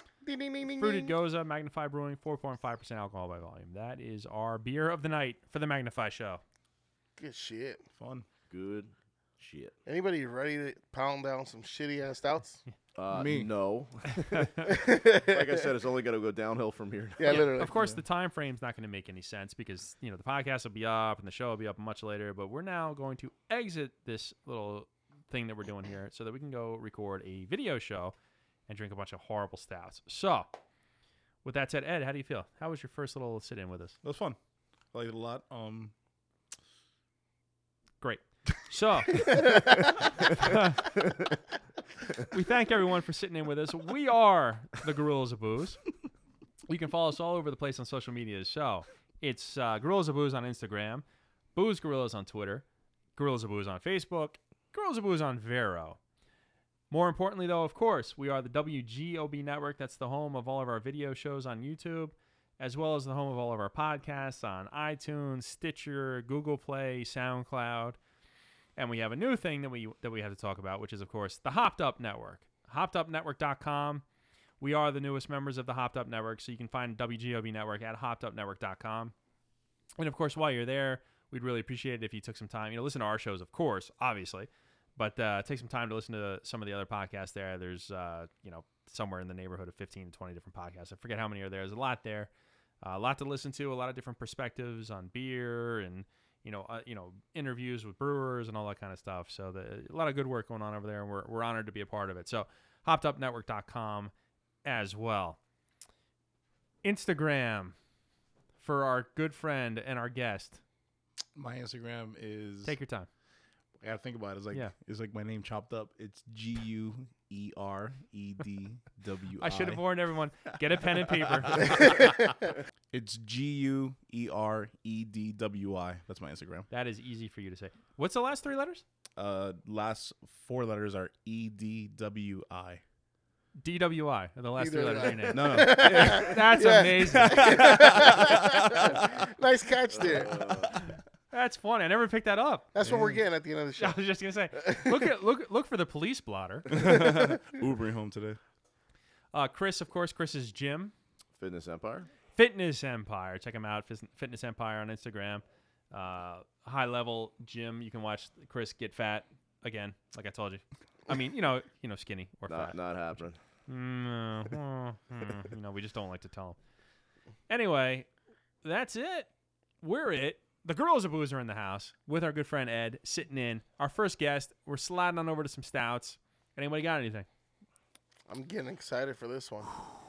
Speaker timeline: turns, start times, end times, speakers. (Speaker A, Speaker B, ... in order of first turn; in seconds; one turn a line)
Speaker A: 0.2-1.2
Speaker B: 0.8-6.4
Speaker A: 7.2-7.8
Speaker C: 8.0-8.3
Speaker D: 8.5-9.8
Speaker A: 9.9-12.6
Speaker D: 12.9-17.5
Speaker C: 13.1-13.5
Speaker A: 14.6-15.7
Speaker A: 17.2-17.8
Speaker B: 17.3-28.1
Speaker C: 17.7-18.0
Speaker B: 28.7-30.5
Speaker B: 31.4-34.0
Speaker C: 34.0-34.4
Speaker C: 34.9-35.9
Speaker B: 38.0-39.7
Speaker B: 40.3-40.9
Speaker B: 42.3-45.8
Speaker B: 46.7-51.0
Speaker B: 51.5-52.6
Speaker B: 53.2-56.0
Speaker B: 56.9-68.0
Speaker B: 68.8-74.0
Speaker B: 74.6-79.1
Speaker B: 80.0-92.3
Speaker B: 92.8-104.1
Speaker B: 104.7-105.4
Speaker B: 106.8-107.8
Speaker B: 108.6-110.6
Speaker C: 111.4-112.8
Speaker B: 112.6-113.1
Speaker C: 113.8-119.8
Speaker B: 119.4-122.0
Speaker C: 122.9-126.7
Speaker B: 126.7-128.8
Speaker C: 129.2-132.8
Speaker B: 133.6-137.7
Speaker A: 134.6-140.5
Speaker C: 135.3-136.3
Speaker C: 137.0-139.1
Speaker D: 139.9-140.7
Speaker B: 140.7-142.7
Speaker A: 142.7-144.0
Speaker C: 142.8-143.2
Speaker B: 143.8-146.7
Speaker A: 144.6-145.1
Speaker C: 146.7-148.4
Speaker A: 146.8-147.4
Speaker B: 149.3-150.9
Speaker D: 151.4-152.1
Speaker B: 152.3-162.8
Speaker D: 162.5-163.4
Speaker B: 163.7-166.6
Speaker B: 167.5-168.1
Speaker B: 168.6-169.3
Speaker B: 169.8-177.3
Speaker A: 178.3-179.7